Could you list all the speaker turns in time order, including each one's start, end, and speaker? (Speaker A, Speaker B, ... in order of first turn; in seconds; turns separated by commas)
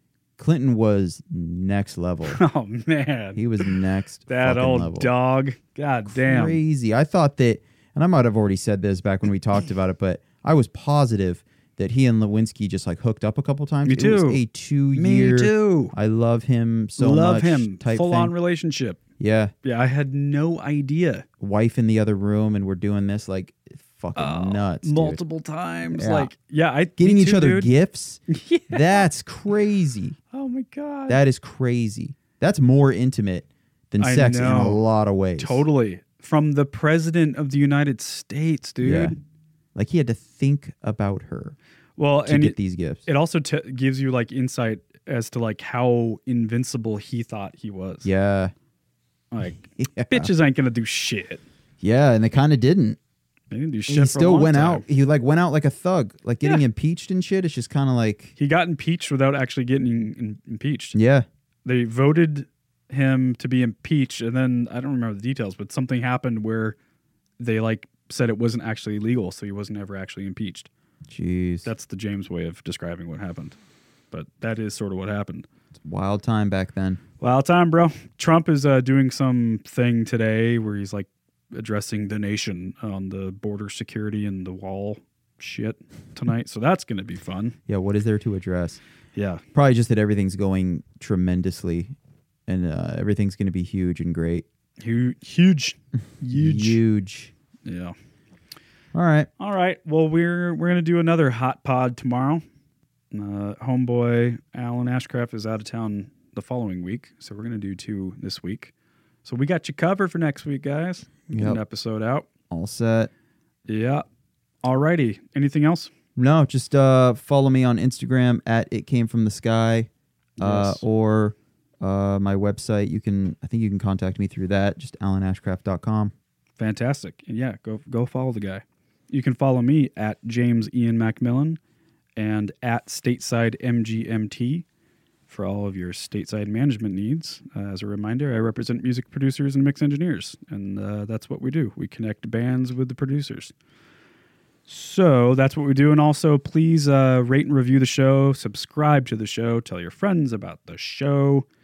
Speaker A: 0.4-2.4, Speaker B: 2.3-3.7, Speaker A: 3.3-5.1, Speaker B: 4.3-6.6, Speaker A: 6.0-18.3, Speaker B: 13.8-14.4, Speaker B: 14.9-15.9, Speaker B: 17.0-19.0, Speaker A: 19.2-19.5, Speaker B: 19.6-21.2, Speaker A: 21.4-25.2, Speaker B: 24.1-27.7, Speaker A: 25.9-26.3, Speaker A: 27.0-30.2, Speaker B: 28.3-29.1, Speaker B: 30.3-31.2, Speaker A: 31.1-35.6, Speaker B: 34.0-34.8, Speaker B: 35.4-39.2, Speaker A: 38.8-39.1, Speaker A: 39.7-41.5, Speaker B: 42.0-48.1, Speaker A: 42.2-43.0, Speaker A: 48.0-48.5, Speaker B: 49.3-51.4, Speaker A: 49.6-50.3, Speaker A: 51.8-53.0, Speaker B: 53.5-54.8, Speaker A: 53.9-58.3, Speaker B: 58.4-61.0, Speaker A: 60.9-61.2, Speaker B: 61.6-66.8, Speaker B: 67.4-70.7, Speaker A: 71.1-71.7, Speaker B: 71.6-73.5, Speaker B: 74.1-75.5, Speaker A: 75.7-77.0, Speaker B: 77.2-87.5, Speaker A: 87.7-88.8, Speaker B: 89.2-89.4, Speaker A: 89.5-92.0, Speaker A: 92.5-94.5, Speaker B: 94.8-96.8, Speaker A: 96.3-97.3, Speaker B: 97.6-97.9, Speaker A: 98.9-99.3, Speaker B: 99.4-102.4, Speaker B: 103.1-108.7, Speaker B: 109.2-112.2, Speaker A: 111.3-111.6, Speaker A: 112.5-113.1, Speaker B: 113.7-114.0, Speaker B: 114.6-115.9, Speaker A: 116.2-126.1, Speaker B: 120.4-120.8, Speaker B: 126.6-131.6, Speaker B: 132.2-134.6, Speaker B: 135.3-143.5, Speaker B: 144.7-151.4